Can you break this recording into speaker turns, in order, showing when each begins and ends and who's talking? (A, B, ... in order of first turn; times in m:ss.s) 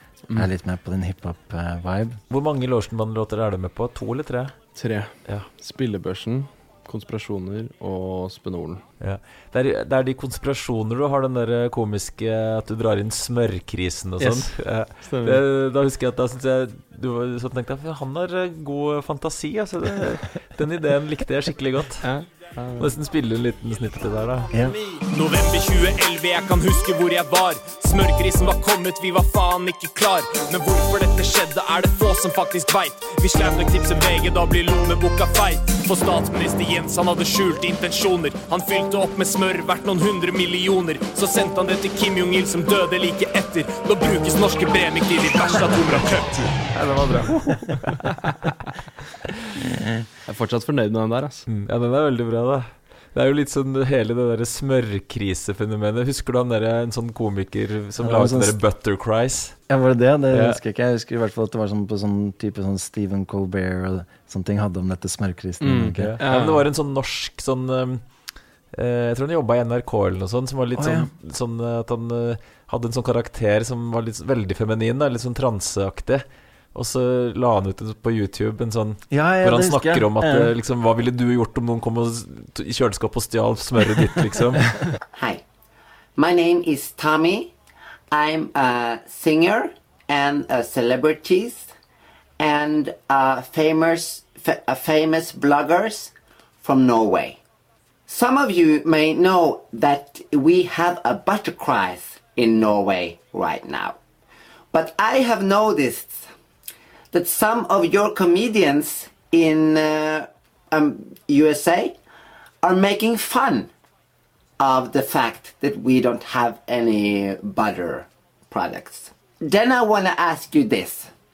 0:00.3-0:02.2 A
0:02.3-0:04.6 B
0:04.7-0:08.8 C
0:09.0-0:22.1 B
0:14.2-0:15.4 C
0:22.0-0:22.9 C
0:22.8-0:24.5 B
0:24.5-0:24.8 A
0:25.0-0:46.6 D
0:46.7-0:48.3 B
0:50.2-0:51.4 C
0:51.5-0:59.6 B
0:58.0-0:58.6 A
0:59.7-1:06.2 A
1:00.3-1:00.6 B
1:05.6-1:06.6 C
1:06.0-1:08.0 B
1:08.7-1:24.7 B
1:10.8-1:11.1 A
1:19.1-1:20.5 A
1:25.1-1:25.4 E
1:26.2-1:27.5 E
1:28.1-1:31.7 E
1:32.4-1:37.4 E
1:38.1-1:44.0 E
1:44.7-1:46.3 E
1:47.1-1:52.0 E
1:52.6-1:53.7 E
1:54.6-2:01.1 E